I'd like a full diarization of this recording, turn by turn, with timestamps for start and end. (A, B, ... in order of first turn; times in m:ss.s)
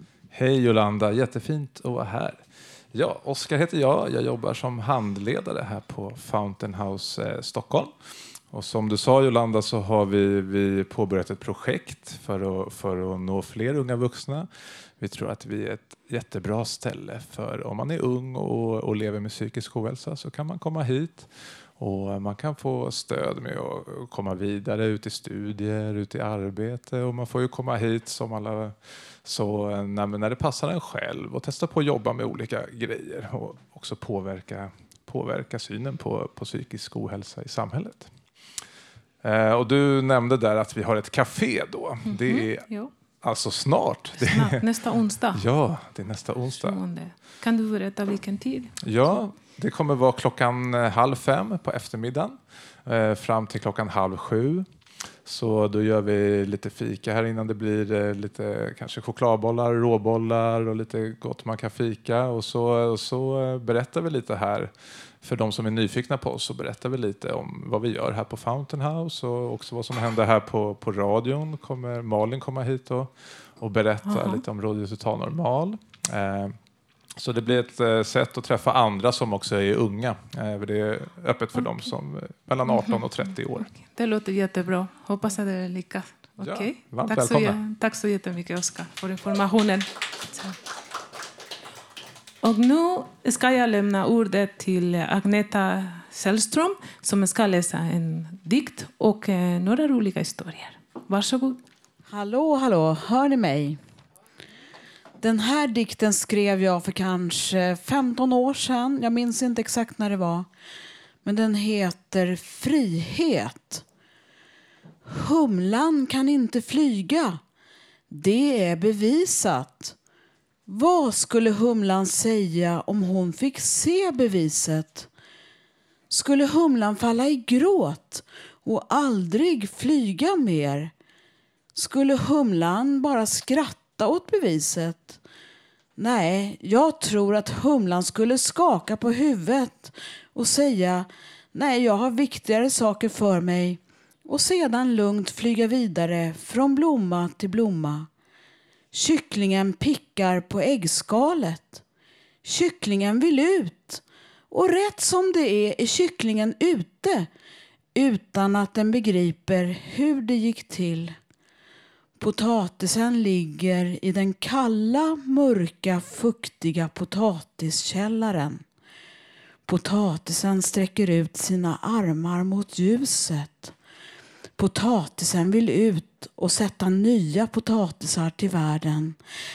0:00.3-0:38.1 A
0:39.2-0:44.6 A
0:42.0-0:42.9 B
0:44.2-0:45.4 B
0:45.3-0:46.8 A
0:46.5-0:48.7 B
0:48.8-1:16.6 A
1:14.1-1:14.4 B
1:17.1-1:23.7 A
1:22.6-1:30.6 B
1:26.4-1:27.6 A
1:32.4-1:41.6 B
1:42.1-1:43.8 C
1:45.2-1:50.5 C
1:51.2-1:53.8 C
1:55.0-1:57.4 C
1:58.1-2:00.0 C
2:00.7-2:05.1 C
2:06.1-2:10.9 C
2:11.8-2:15.2 C
2:16.0-2:28.1 C
2:28.9-2:31.8 C
2:32.4-2:37.3 C
2:38.0-2:41.2 C
2:42.2-2:48.6 C
2:49.7-2:53.8 C
2:54.6-2:59.2 C